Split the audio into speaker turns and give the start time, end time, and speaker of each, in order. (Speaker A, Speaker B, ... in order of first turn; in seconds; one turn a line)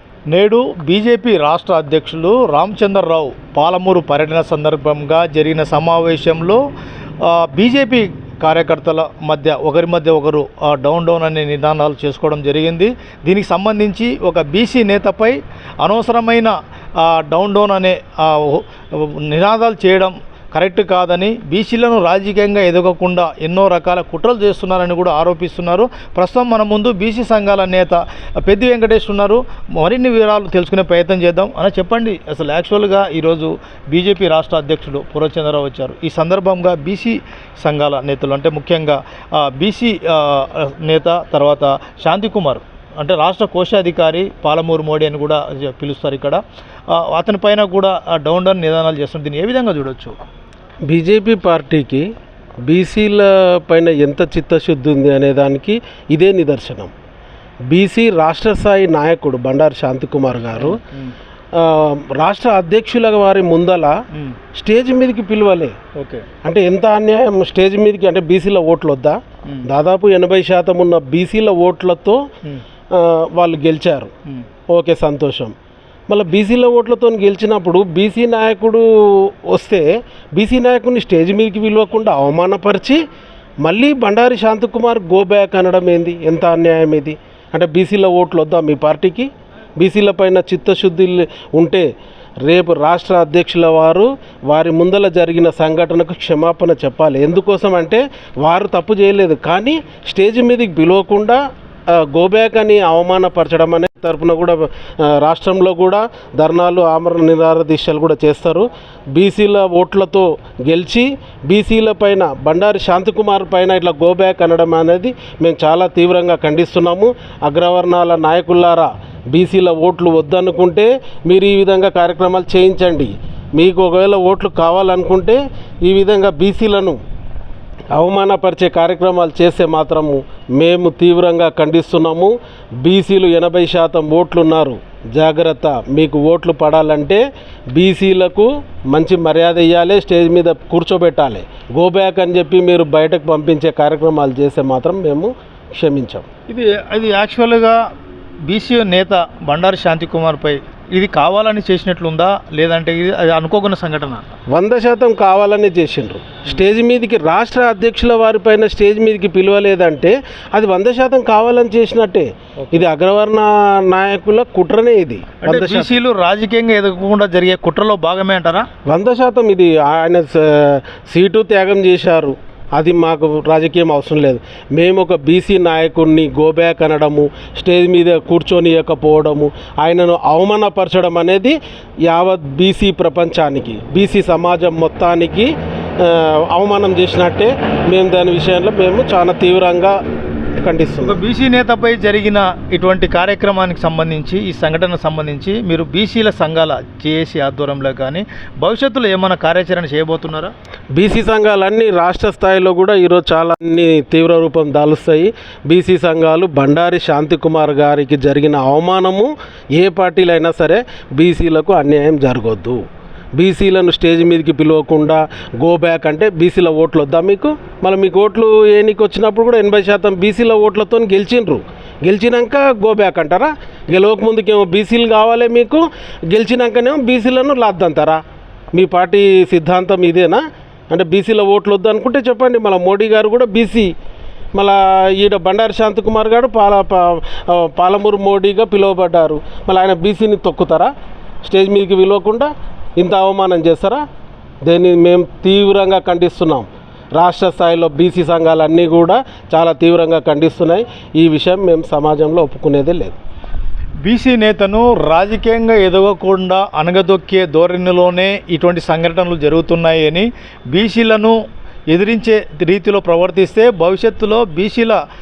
Speaker A: 0.3-6.6
Speaker A: 7.2-46.4
Speaker A: 47.0-50.2
Speaker B: 50.9-52.1
Speaker B: 52.7-56.9
Speaker B: 57.7-60.8
Speaker A: 60.5-61.1
Speaker B: 61.5-64.0
Speaker A: 64.1-64.4
Speaker B: 64.6-65.8
Speaker A: 66.0-66.3
Speaker B: 66.4-72.2
Speaker A: 69.5-69.7
Speaker B: 72.9-74.1
Speaker B: 74.7-75.5
Speaker B: 76.1-83.0
Speaker B: 83.6-91.9
Speaker B: 92.5-101.4
Speaker B: 101.9-127.0
Speaker B: 127.9-137.2
Speaker B: 137.8-146.3
Speaker A: 146.5-147.8
Speaker A: 148.5-154.4
Speaker B: 154.5-165.9
Speaker A: 162.6-162.9
Speaker A: 165.4-168.7
Speaker B: 168.9-190.0
Speaker B: 190.6-191.2
Speaker A: 191.0-200.5
Speaker B: 201.0-212.8
Speaker B: 213.4-228.2
Speaker B: 228.7-233.9
Speaker B: 234.6-240.9
Speaker B: 241.4-244.0
Speaker B: 244.7-253.2
Speaker A: 254.0-261.4
Speaker A: 261.9-265.0